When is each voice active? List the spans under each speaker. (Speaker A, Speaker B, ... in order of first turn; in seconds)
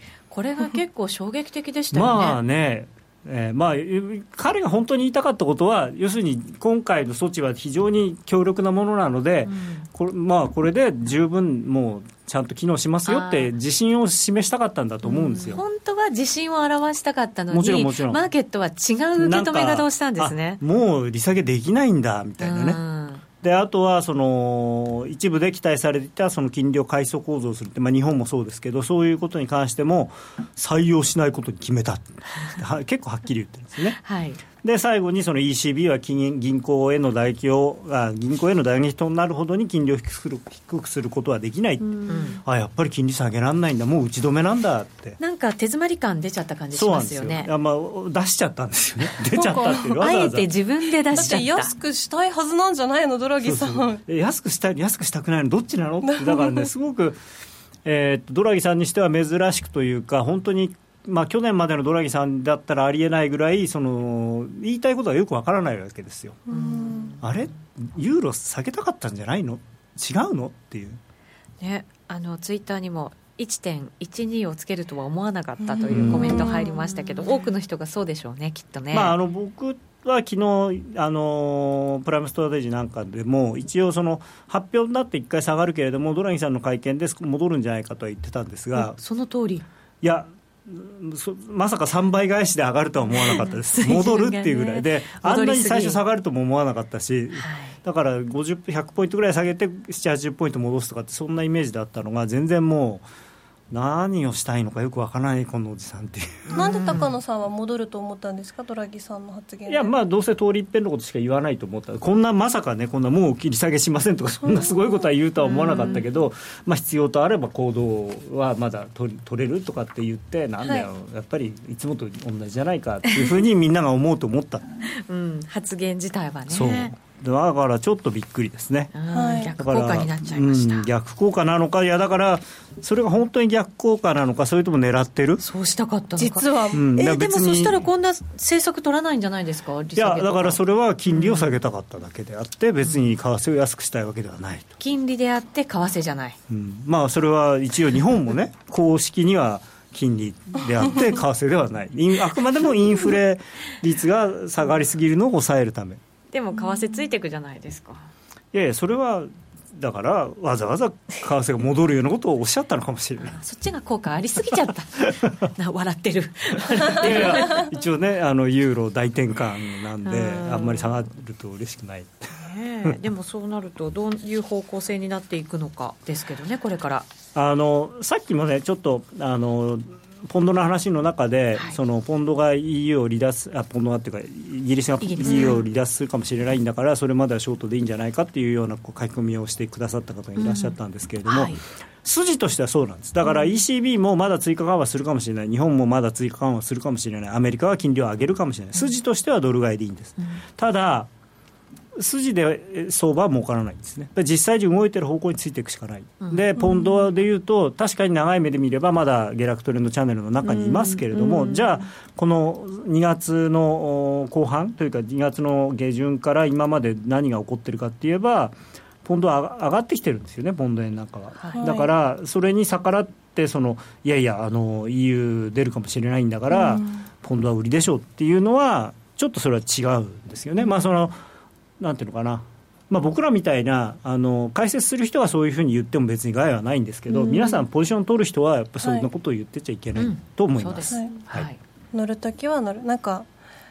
Speaker A: 0.3-2.4, 9.4-9.9, 13.1-13.5, 15.0-20.6, 22.4-23.2, 34.0-34.4, 42.1-42.4, 45.2-47.5, 50.0-51.7, 66.5-67.2, 71.6-79.1, 88.8-89.7, 93.1-96.0, 97.3-97.8, 106.5-107.1, 115.5-116.0, 124.9-126.9, 128.9-130.9, 135.4-141.6, 142.8-143.1, 144.8-146.4, 156.3-158.1, 163.2-167.7, 170.0-170.9, 172.4-177.1, 185.0-185.6, 190.4-191.6, 193.2-193.6, 221.4-221.7, 239.9-241.6
Speaker B: 1.9-15.6, 17.5-18.2, 19.2-22.8, 23.4-34.0, 34.5-45.2, 46.7-50.5, 53.4-57.2, 57.8-66.4, 67.2-71.0, 75.8-76.6, 78.9-89.0, 90.0-103.1, 103.7-107.1, 109.7-124.7, 126.5-128.9, 129.5-135.4, 136.7-137.8, 139.9-144.7, 146.5-156.0, 158.5-163.3, 166.9-172.2, 177.3-201.1, 201.9-231.2, 231.8-241.5
Speaker C: 49.3-50.0, 51.1-54.0, 56.0-56.6, 66.5-67.1, 75.9-77.3, 106.5-109.9, 120.6-120.9, 129.1-129.5, 136.2-136.8, 206.6-206.9, 221.5-221.9, 226.5-226.8, 238.8-239.1, 240.9-241.2, 241.9-243.3